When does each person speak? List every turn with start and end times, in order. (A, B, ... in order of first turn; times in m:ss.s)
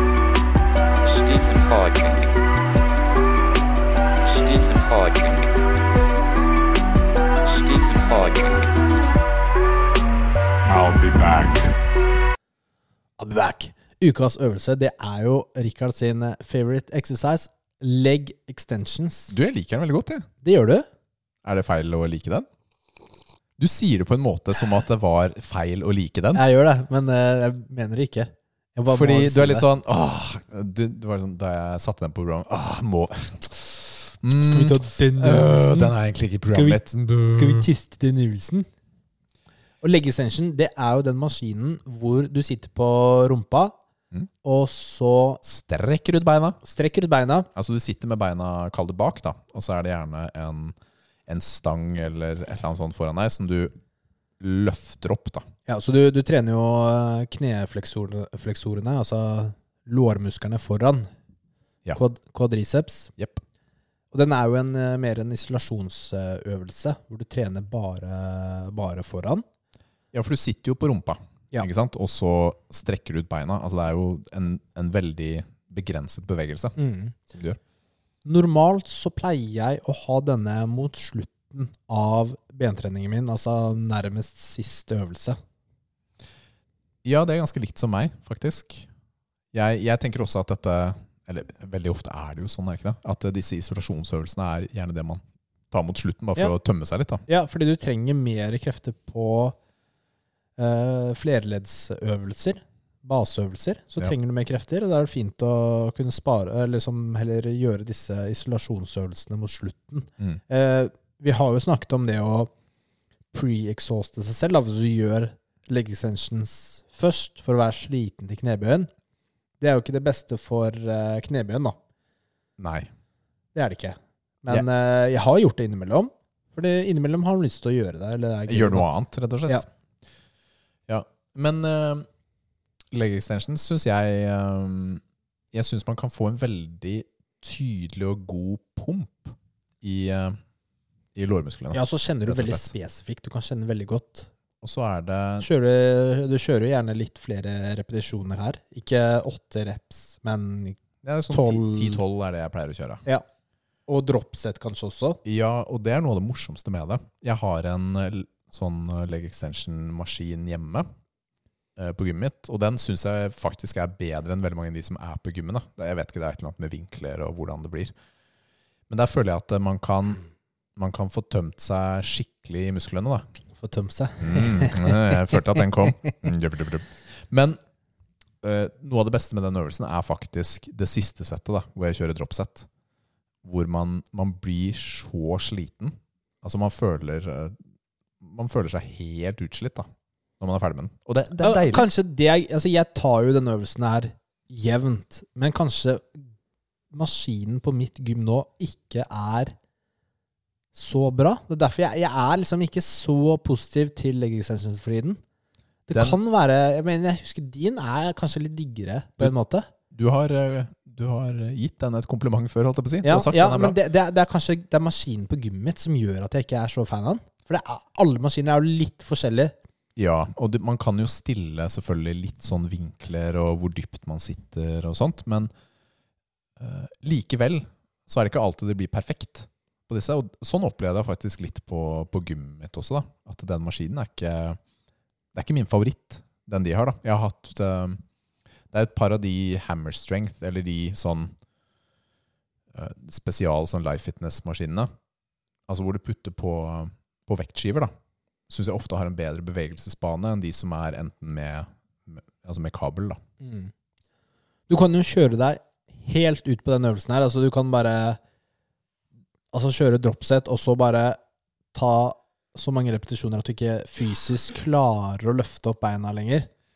0:01.0-0:02.3 A
0:04.2-0:05.6 A
0:07.4-0:08.7 A
0:10.7-0:11.7 B
0:13.2-0:19.3 C
0:19.3-0:20.3 B
0:20.4-0:20.9 C
0:21.4-0:22.5 B
0:23.6-0:26.4 B
0:26.3-0:29.7 C
0:28.9-0:37.7 B
0:34.4-0:35.9 C
0:36.5-0:38.7 C
0:39.8-0:43.8 C
0:44.4-0:45.4 C
0:45.4-0:46.6 B
0:46.6-0:47.5 C
0:47.6-0:53.7 B
0:54.4-0:55.4 B
0:55.7-1:01.1 C
1:02.0-1:03.1 C
1:04.1-1:09.4 C
1:10.1-1:16.8 B
1:16.8-1:17.2 C
1:17.3-1:17.6 B
1:18.2-1:25.4 C
1:27.0-1:28.9 B
1:29.5-1:37.2 B
1:37.3-1:39.6 C
1:40.6-1:52.5 C
1:53.3-1:58.9 C
1:59.6-2:01.8 C
2:02.6-2:02.9 B
2:03.6-2:08.9 C
2:08.5-2:09.7 B
2:10.9-2:12.1 B
2:12.9-2:15.0 B
2:15.5-2:20.4 B
2:21.2-2:22.7 B
2:21.7-2:24.3 C
2:24.6-2:25.5 B
2:25.4-2:30.8 C
2:31.0-2:33.0 B
2:31.3-2:32.0 C
2:33.9-2:35.2 C
2:35.2-2:40.9 B
2:41.8-2:47.9 B
2:48.9-2:50.2 B
2:50.8-2:53.2 B
2:53.6-2:55.6 C
2:54.2-2:57.6 B
2:58.4-3:02.7 B
3:03.4-3:07.6 B
3:08.2-3:09.9 B
3:10.4-3:11.9 B
3:11.4-3:16.2 C
3:16.9-3:19.5 C
3:20.7-3:25.2 C
3:25.9-3:29.7 C
3:25.9-3:26.2 B
3:29.9-3:33.8 B
3:33.0-3:39.5 C
3:40.0-3:45.5 B
3:46.6-3:54.6 B
3:55.3-3:58.0 B
3:58.7-4:01.3 B
4:02.7-4:04.9 B
4:05.7-4:07.9 B
4:08.5-4:13.2 B
4:13.4-4:13.7 C
4:14.7-4:18.2 C
4:19.5-4:21.2 C
4:21.7-4:26.5 C